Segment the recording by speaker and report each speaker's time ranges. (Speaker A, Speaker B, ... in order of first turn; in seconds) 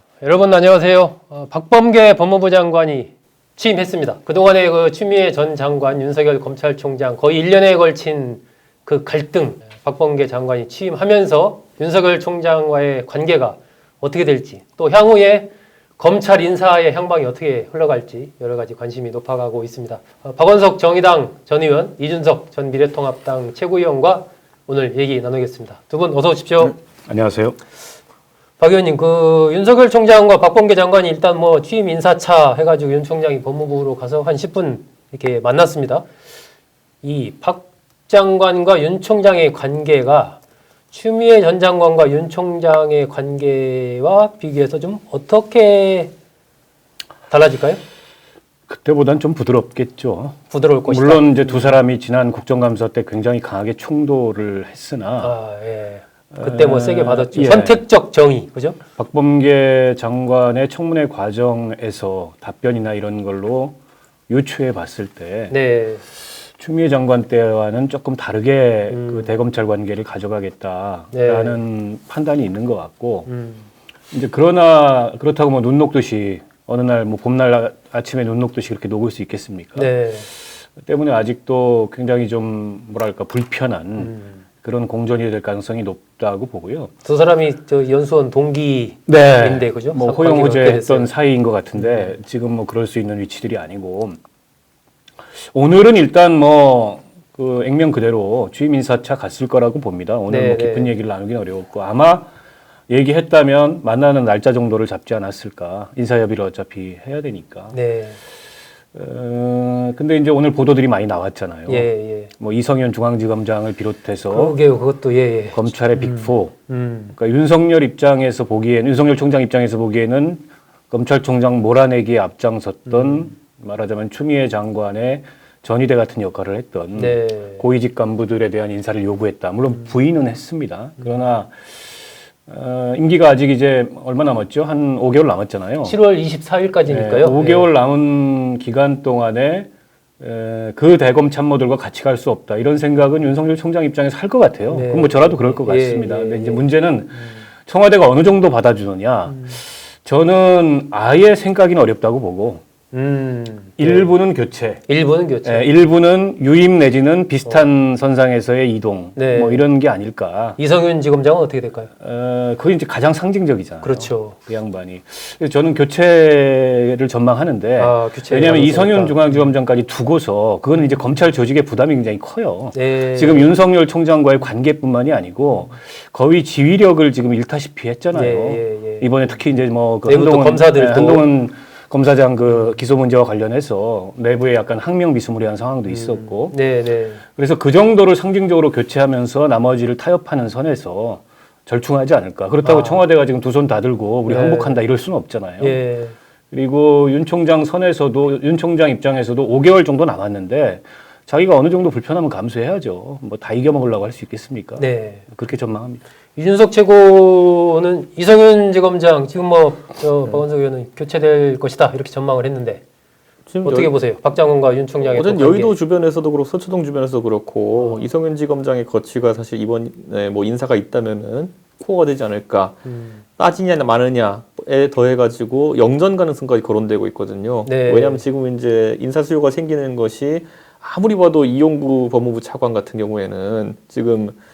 Speaker A: 0.2-26.8, 28.6-36.0, 37.0-40.4, 40.9-46.1, 47.3-47.8, 50.5-51.8, 55.2-58.8, 65.5-66.0, 68.9-69.3, 71.1-71.6, 73.2-73.7, 79.7-80.3, 84.0-84.4, 87.0-91.1, 91.8-92.1, 100.3-100.9, 107.7-108.2, 111.7-112.3, 114.3-117.1, 123.0-123.3, 127.0-127.6, 135.8-137.7, 144.7-146.6, 149.3-149.5, 152.9-154.1, 154.9-155.7, 159.2-159.6, 160.6-161.9, 163.8-164.3, 167.8-169.4, 172.7-173.5, 178.1-179.1, 180.1-181.2, 185.9-187.2, 192.6-193.0, 194.2-194.8, 195.6-196.2, 204.8-205.2, 206.3-212.8, 213.6-215.7, 217.8-218.1, 222.8-223.2, 227.6-228.2
Speaker B: 27.1-27.6, 48.7-55.3, 56.3-57.8, 59.0-63.8, 64.3-65.5, 66.6-73.3, 74.1-79.9, 80.7-86.9, 89.1-94.2, 95.5-102.3, 102.9-107.8, 108.9-114.6, 115.5-116.5, 117.1-131.8, 132.4-136.0, 136.9-152.6, 153.8-154.8, 155.4-160.6, 162.0-186.6, 187.3-195.8, 196.5-206.0
Speaker C: 213.5-213.9, 215.0-222.8, 223.4-234.3